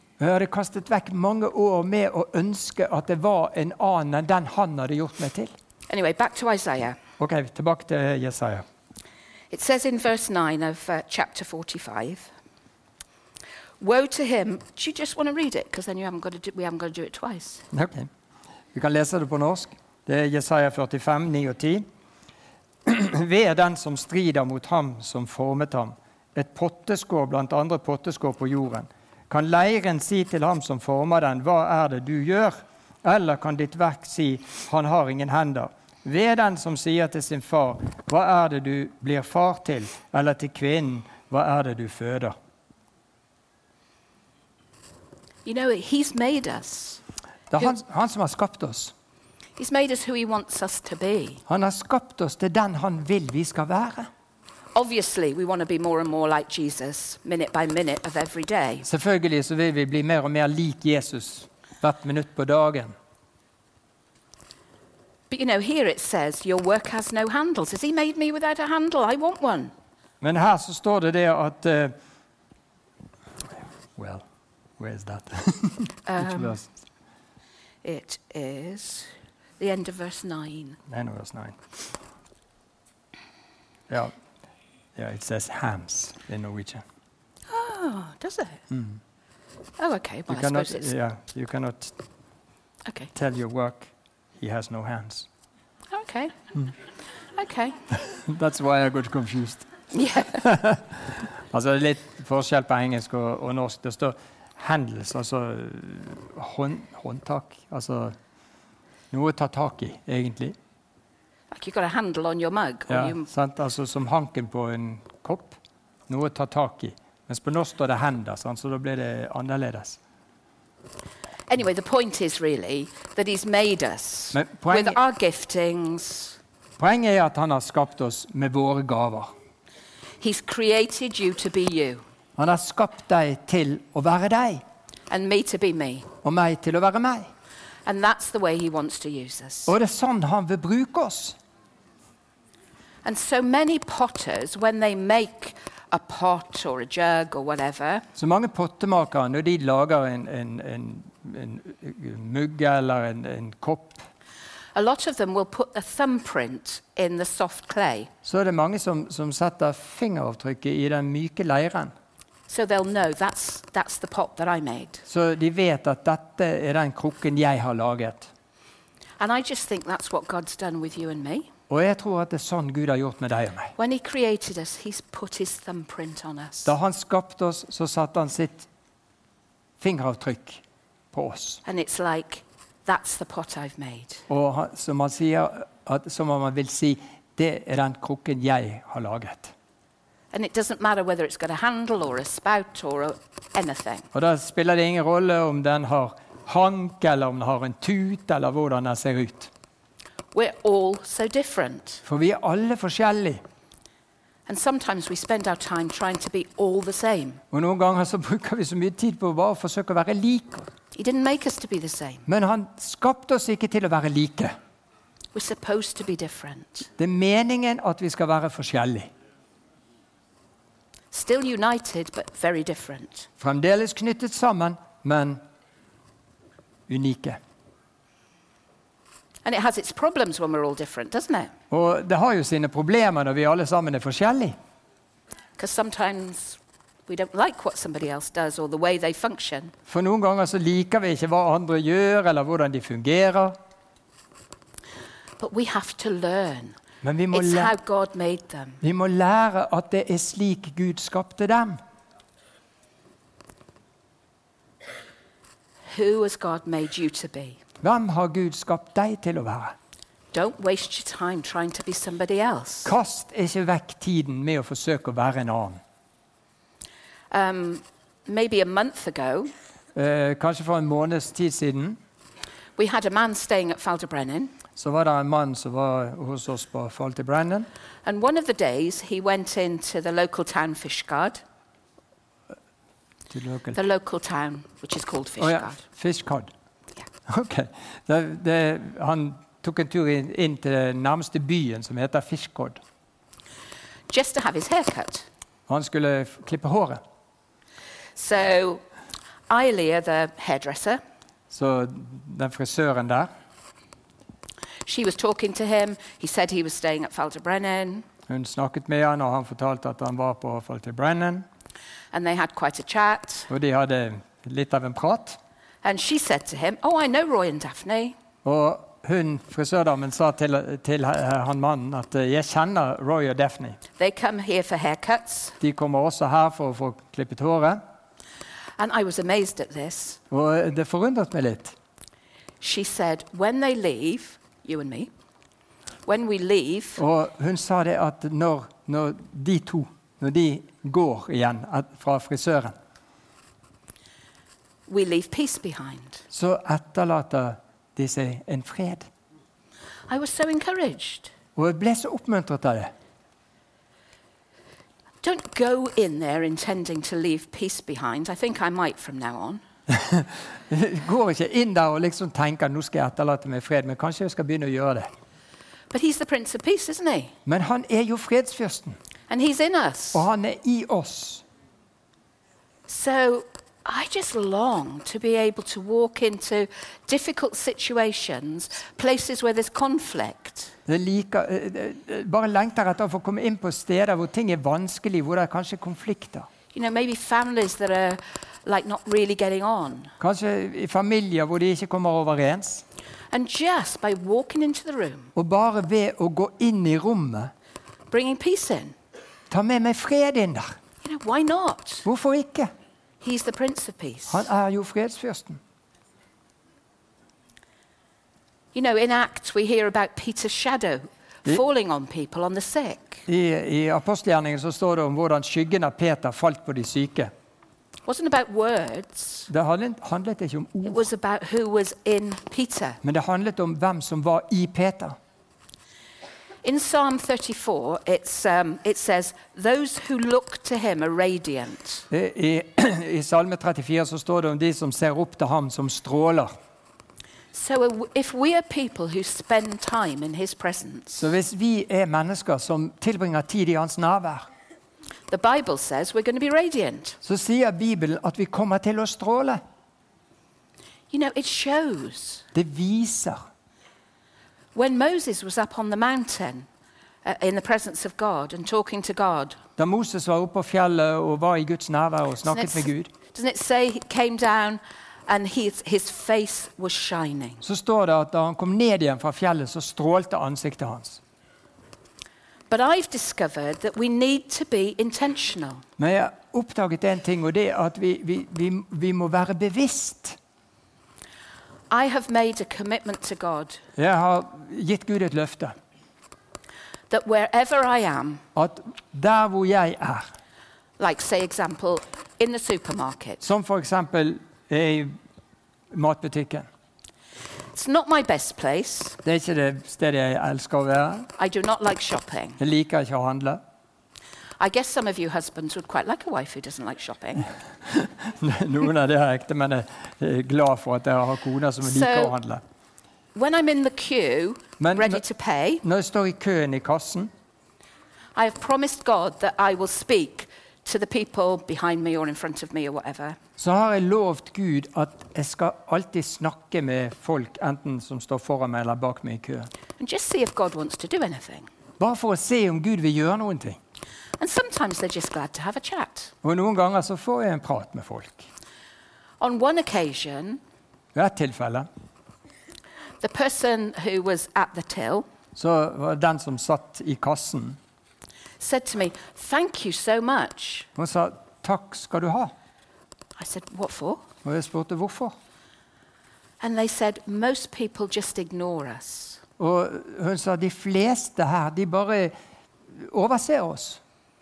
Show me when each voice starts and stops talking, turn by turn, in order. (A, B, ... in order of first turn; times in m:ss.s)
0:00.2-0:05.5 A
0:05.9-0:07.0 B
0:07.2-0:08.6 A
0:09.5-0:12.3 B
0:13.8-0:17.6 B
0:17.7-0:18.1 A
0:18.7-0:21.8 A
0:22.8-0:42.3 A
0:45.4-0:47.0 B
0:47.5-0:48.9 A
0:49.6-0:51.4 B
0:51.5-0:54.1 A
0:54.7-0:58.9 B
0:58.8-1:02.9 A
1:05.3-1:09.7 B
1:10.2-1:11.9 A
1:14.0-1:14.2 A
1:14.8-1:16.6 A
1:16.1-1:16.6 B
1:17.8-1:20.8 B
1:20.9-1:21.6 A
1:25.0-1:26.8 A
1:27.5-1:28.6 B
1:28.7-1:29.0 A
1:29.8-1:30.9 B
1:30.3-1:31.9 A
1:33.1-1:35.3 A
1:35.9-1:36.4 B
1:37.4-1:37.8 B
1:37.9-1:39.7 A
1:39.9-1:40.4 B
1:40.3-1:48.1 A
1:49.1-1:50.6 A
1:51.5-1:53.2 B
1:52.9-1:55.6 A
1:56.1-2:00.0 A
2:01.5-2:06.4 B
2:04.3-2:05.0 A
2:06.8-2:09.3 A
2:10.2-2:12.0 B
2:12.4-2:14.6 A
2:15.1-2:16.1 B
2:16.2-2:17.3 A
2:17.8-2:19.7 B
2:19.7-2:21.4 A
2:23.0-2:28.0 B
2:28.2-2:34.0 A
2:34.7-2:38.1 B
2:38.2-2:41.9 A
2:42.5-2:45.0 B
2:45.1-2:48.3 A
2:49.2-2:51.5 B
2:51.7-2:53.7 A
2:53.8-2:56.7 B
2:56.6-2:58.7 A
2:59.8-3:00.6 A
3:01.1-3:01.6 A
3:01.6-3:04.2 B
3:04.3-3:09.5 A
3:10.3-3:14.1 B
3:14.1-3:19.5 A
3:20.3-3:22.0 B
3:22.0-3:23.4 A
3:24.5-3:27.4 B
3:27.5-3:30.7 A
3:30.9-3:32.2 B
3:32.3-3:34.5 A
3:35.3-3:36.9 B
3:37.0-3:39.1 A
3:41.1-3:43.3 B
3:43.4-3:45.4 A
3:46.9-3:47.4 A
3:49.4-3:51.5 B
3:51.7-3:54.6 A
3:55.6-3:59.7 B
3:59.9-4:03.6 A
4:05.4-4:06.8 B
4:07.0-4:07.7 A
4:07.3-4:08.8 B
4:08.8-4:11.8 A
4:15.9-4:17.6 B
4:17.8-4:19.7 A
4:20.3-4:22.9 B
4:22.8-4:25.8 A
4:27.3-4:29.5 B
4:29.9-4:32.0 A
4:32.8-4:34.5 B
4:34.8-4:37.7 A
4:38.0-4:41.4 B
4:43.3-4:43.8 A
4:43.7-4:45.8 B
4:45.4-4:46.5 A
4:47.3-4:52.8 A
4:54.1-4:55.3 B
4:55.7-4:57.0 A
4:58.2-4:58.8 B
4:59.5-5:01.0 B
5:01.5-5:03.3 A
5:04.8-5:08.0 B
5:08.3-5:11.4 A
5:12.1-5:13.5 B
5:13.5-5:15.4 A
5:15.8-5:18.2 B
5:18.4-5:23.8 A
5:24.0-5:25.6 B
5:25.6-5:27.8 A
5:28.8-5:30.2 B
5:30.3-5:31.7 A
5:32.6-5:35.1 B
5:36.0-5:37.0 B
5:37.0-5:42.7 A
5:44.9-5:46.2 B
5:46.3-5:49.1 A
5:50.1-5:51.3 B
5:51.6-5:52.9 A
5:55.2-5:59.6 B
5:59.9-6:05.1 A
6:05.9-6:07.3 B
6:07.4-6:09.0 A
6:09.3-6:10.2 B
6:10.1-6:11.4 A
6:12.9-6:20.7 B
6:20.9-6:26.5 A
6:26.7-6:30.1 B
6:30.2-6:32.8 A
6:33.3-6:35.3 B
6:35.3-6:37.5 A
6:38.1-6:38.9 B
6:39.5-6:40.7 A
6:41.0-6:42.0 B
6:42.0-6:42.7 A
6:43.2-6:44.4 B
6:44.3-6:45.6 A
6:48.7-6:53.2 B
6:53.3-6:57.3 A
6:58.1-6:59.5 B
6:59.5-7:01.1 A
7:00.8-7:03.0 B
7:03.0-7:05.2 A
7:06.6-7:12.1 B
7:12.1-7:16.5 A
7:17.5-7:21.3 B
7:21.2-7:24.5 A
7:25.3-7:27.2 B
7:27.2-7:29.6 A
7:31.1-7:32.4 B
7:32.5-7:33.4 A
7:34.7-7:36.7 B
7:37.2-7:39.6 B
7:39.8-7:43.1 A
7:42.5-7:47.6 B
7:47.6-7:51.2 A
7:52.7-7:55.8 B
7:56.0-8:00.4 A
8:01.9-8:03.8 B
8:04.0-8:05.7 A
8:07.1-8:08.4 B
8:08.5-8:10.3 A
8:11.0-8:13.4 B
8:13.4-8:15.1 A
8:15.9-8:16.7 A
8:17.7-8:19.2 B
8:19.2-8:21.3 A
8:21.4-8:22.6 B
8:22.6-8:23.6 A
8:24.6-8:27.5 B
8:27.9-8:32.6 A
8:31.8-8:32.3 B
8:33.3-8:35.8 B
8:34.8-8:35.2 A
8:35.8-8:37.3 A
8:38.4-8:43.4 B
8:43.6-8:49.7 A
8:50.0-8:51.7 B
8:52.0-8:53.8 A
8:54.4-8:56.3 B
8:56.4-8:58.5 A
8:59.4-9:00.6 B
9:01.1-9:01.9 A
9:03.2-9:05.2 B
9:05.5-9:07.8 A
9:08.6-9:10.9 B
9:11.0-9:12.5 A
9:13.4-9:14.2 B
9:14.4-9:15.3 A
9:16.6-9:19.4 B
9:19.6-9:22.3 A
9:22.9-9:24.0 A